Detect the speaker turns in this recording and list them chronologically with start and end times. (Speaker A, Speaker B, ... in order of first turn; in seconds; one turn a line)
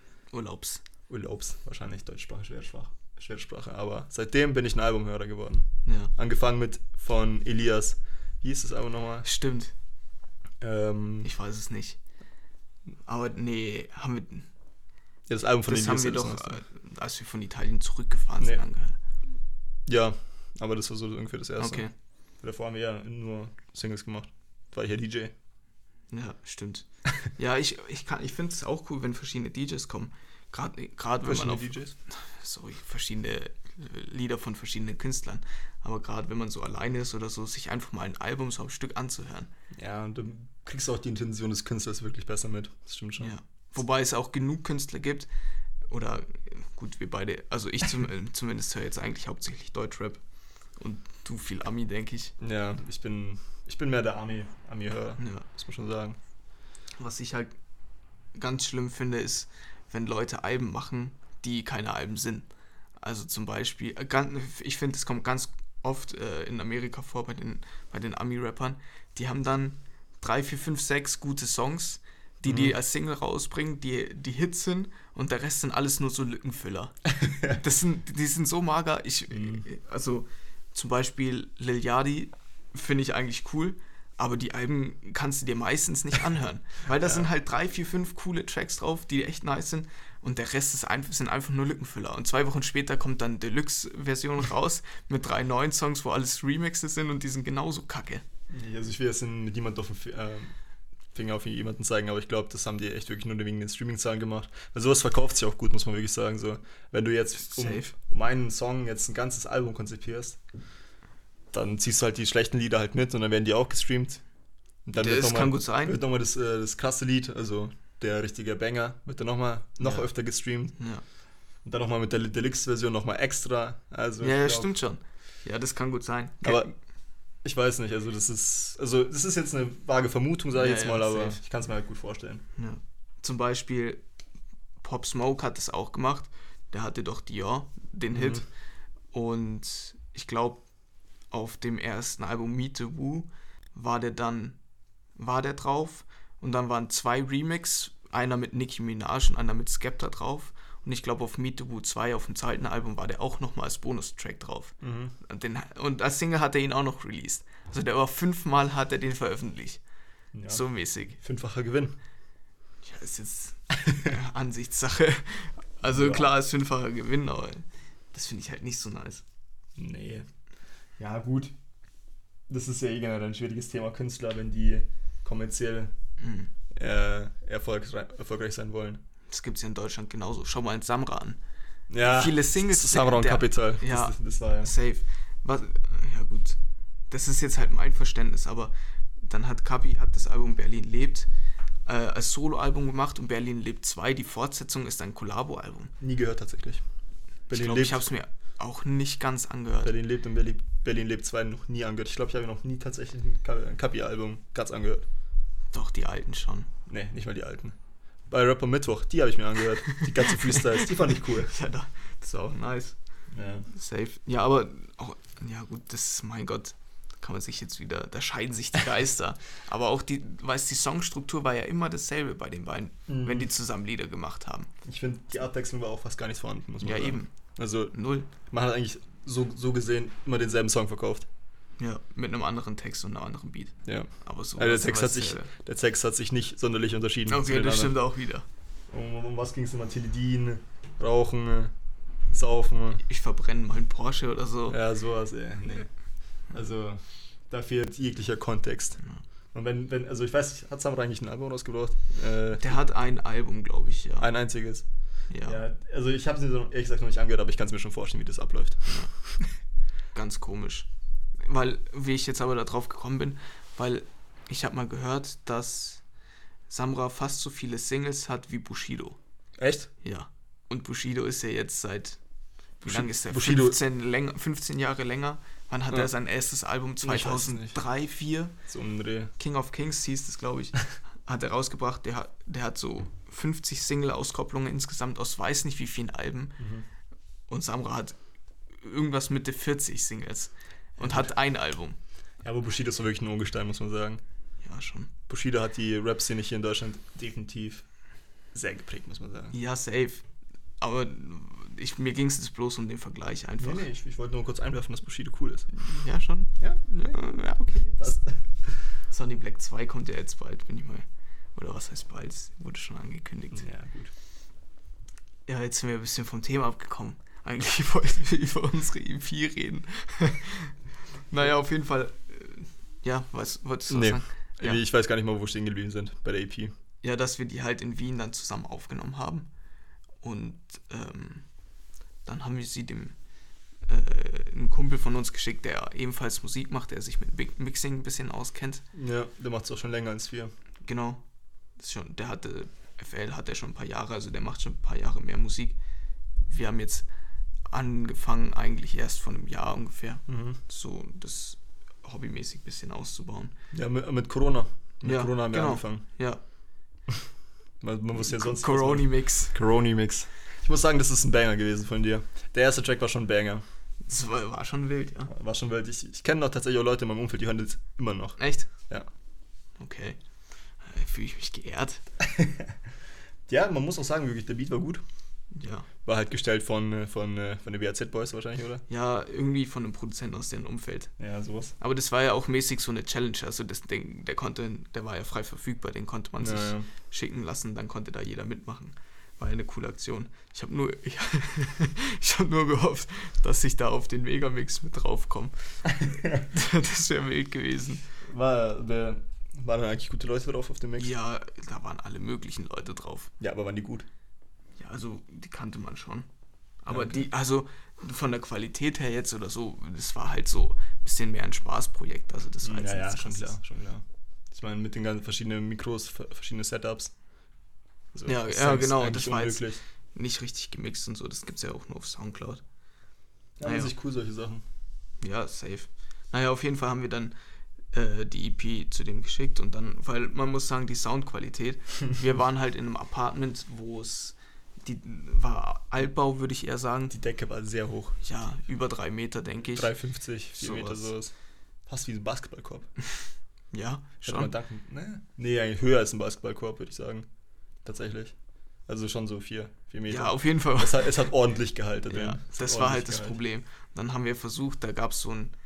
Speaker A: 0.3-0.8
Speaker B: 1.1-9.2
Speaker A: 5.8-6.1
Speaker A: 9.2-9.7
Speaker B: 10.6-11.3
Speaker A: 11.2-12.0
Speaker A: 13.0-14.5
Speaker B: 15.3-16.6
Speaker A: 15.7-19.0
Speaker B: 19.9-21.9
Speaker A: 21.6-21.9
Speaker B: 22.4-25.3
Speaker A: 26.1-39.5
Speaker B: 31.2-31.9
Speaker B: 39.7-43.3
Speaker A: 43.2-45.3
Speaker A: 45.9-50.2
Speaker A: 50.8-52.3
Speaker B: 52.4-56.2
Speaker A: 55.2-55.5
Speaker A: 57.0-57.5
Speaker A: 58.3-62.5
Speaker A: 63.0-98.2
Speaker B: 72.5-72.7
Speaker B: 77.2-77.6
Speaker B: 79.3-79.6
Speaker B: 87.0-87.3
Speaker B: 98.5-100.5
Speaker B: 101.1-110.4
Speaker A: 107.4-107.9
Speaker B: 111.5-114.2
Speaker B: 114.8-120.8
Speaker A: 114.9-116.0
Speaker A: 119.8-120.1
Speaker A: 120.8-121.0
Speaker B: 121.6-124.7
Speaker A: 124.2-126.7
Speaker B: 126.4-126.7
Speaker B: 127.4-132.4
Speaker A: 130.5-131.4
Speaker A: 132.6-134.0
Speaker A: 134.8-138.5
Speaker B: 138.1-138.4
Speaker A: 139.1-140.6
Speaker A: 141.3-144.6
Speaker A: 145.2-159.8
Speaker B: 154.8-155.1
Speaker B: 160.3-160.6
Speaker A: 160.5-161.2
Speaker B: 161.2-162.0
Speaker A: 162.8-169.2
Speaker B: 163.8-164.1
Speaker B: 165.8-166.3
Speaker B: 169.8-170.2
Speaker B: 171.0-171.5
Speaker B: 172.5-175.9
Speaker A: 176.2-176.5
Speaker B: 176.7-179.0
Speaker A: 179.3-181.4
Speaker B: 181.9-184.7
Speaker A: 182.0-186.6
Speaker A: 187.1-191.3
Speaker A: 191.8-195.9
Speaker B: 196.0-196.8
Speaker B: 197.5-198.1
Speaker A: 197.5-199.9
Speaker B: 199.8-205.1
Speaker A: 205.7-206.7
Speaker B: 206.9-207.8
Speaker B: 208.3-211.5
Speaker A: 210.5-212.9
Speaker B: 213.3-213.7
Speaker A: 213.7-224.7
Speaker B: 223.1-223.5
Speaker B: 224.8-231.3
Speaker A: 226.8-227.3
Speaker A: 227.9-228.3
Speaker A: 231.8-235.5
Speaker B: 233.8-238.0
Speaker A: 237.3-238.4
Speaker B: 238.9-241.7
Speaker B: 242.3-243.0
Speaker A: 243.0-244.8
Speaker B: 244.7-245.9
Speaker B: 246.5-249.0
Speaker B: 249.5-252.8
Speaker A: 252.6-254.3
Speaker B: 254.2-254.8
Speaker A: 255.3-255.6
Speaker B: 255.4-259.5
Speaker A: 260.1-260.9
Speaker A: 261.4-266.0
Speaker A: 266.7-269.2
Speaker B: 269.6-269.9
Speaker A: 270.0-272.2
Speaker A: 272.8-278.5
Speaker B: 272.8-273.8
Speaker B: 277.0-277.8
Speaker B: 278.7-279.3
Speaker A: 279.4-286.6
Speaker B: 286.6-286.9
Speaker A: 287.5-288.1
Speaker A: 288.8-292.0
Speaker B: 291.0-291.3
Speaker B: 292.4-294.2
Speaker A: 294.6-295.1
Speaker B: 295.3-297.8
Speaker B: 298.5-299.5
Speaker A: 299.5-300.2
Speaker A: 300.8-303.9
Speaker B: 303.6-305.7
Speaker A: 305.7-308.1
Speaker B: 306.6-307.2
Speaker B: 308.0-308.7
Speaker A: 309.1-313.7
Speaker B: 313.5-314.1
Speaker A: 315.5-320.8
Speaker A: 321.3-324.8
Speaker B: 323.9-326.7
Speaker A: 327.0-329.5
Speaker A: 330.2-331.4
Speaker A: 332.2-333.1
Speaker A: 333.9-338.8
Speaker B: 338.9-340.5
Speaker A: 340.9-341.2
Speaker A: 341.8-345.8
Speaker A: 346.4-347.1
Speaker A: 347.7-353.5
Speaker B: 350.3-350.6
Speaker B: 353.7-356.0
Speaker A: 355.0-356.4
Speaker B: 357.8-363.6
Speaker A: 358.2-359.5
Speaker A: 364.1-365.3
Speaker B: 365.3-369.1
Speaker A: 368.4-368.7
Speaker A: 369.8-370.2
Speaker A: 370.8-372.0
Speaker B: 372.2-372.7
Speaker B: 373.5-375.0
Speaker A: 375.5-375.9
Speaker B: 376.0-378.8
Speaker A: 378.9-381.1
Speaker B: 381.2-381.7
Speaker A: 381.8-395.8
Speaker B: 386.4-386.9
Speaker B: 396.0-396.4
Speaker A: 396.3-398.0
Speaker B: 398.2-401.1
Speaker A: 401.0-403.3
Speaker B: 403.4-404.1
Speaker A: 404.8-406.3
Speaker A: 406.8-413.6
Speaker B: 406.9-407.3
Speaker B: 412.6-417.1
Speaker B: 418.1-419.8
Speaker A: 418.2-422.6
Speaker B: 423.6-424.6
Speaker A: 423.6-423.9
Speaker A: 425.2-427.3
Speaker A: 427.9-437.1
Speaker B: 437.1-438.2
Speaker A: 438.2-439.9
Speaker B: 439.7-441.3
Speaker A: 440.5-441.1
Speaker B: 441.9-442.9
Speaker A: 443.7-444.5
Speaker B: 444.2-447.3
Speaker B: 447.8-448.3
Speaker B: 448.9-453.4
Speaker A: 450.1-451.2
Speaker A: 452.1-455.5